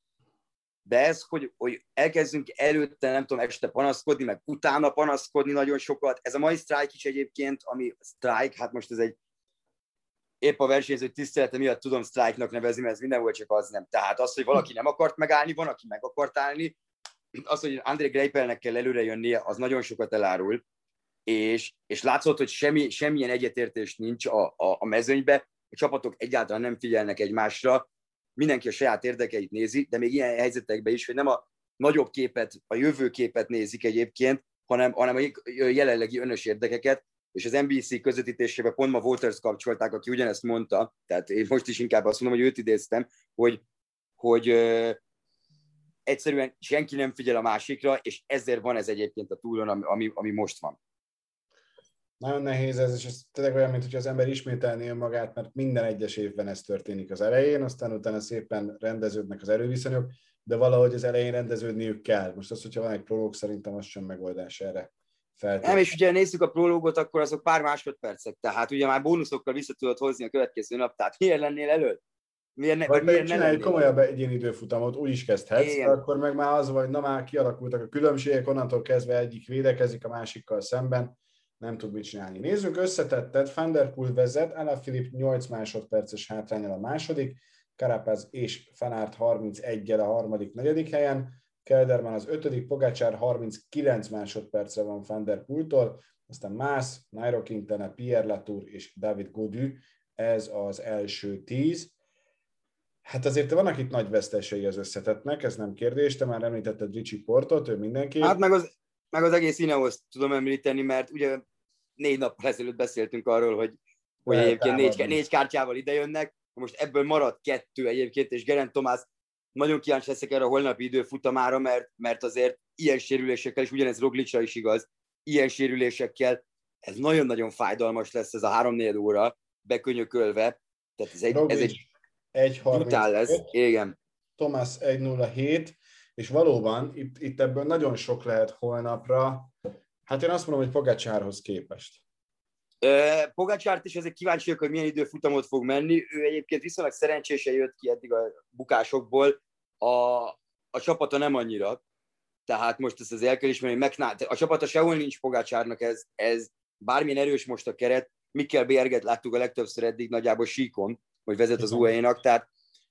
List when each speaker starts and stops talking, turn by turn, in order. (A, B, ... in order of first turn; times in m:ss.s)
0:00.8-0:09.2 A
0:10.4-0:16.8 A
0:17.4-0:20.6 A
0:21.2-0:43.6 A
0:44.2-0:45.0 A
0:46.0-0:50.8 A
0:52.2-1:06.0 B
1:05.6-1:12.0 A
1:12.6-1:13.9 A
1:12.9-1:41.9 B
1:15.6-1:16.0 A
1:43.0-1:48.4 B
1:48.2-1:51.4 A
1:52.0-2:11.8 A
1:54.2-1:55.2 B
2:11.3-2:13.5 B
2:12.6-2:14.0 A
2:14.4-2:19.5 B
2:20.0-2:22.0 B
2:22.8-2:31.8 A
2:32.4-2:42.4 A
2:41.6-2:41.9 B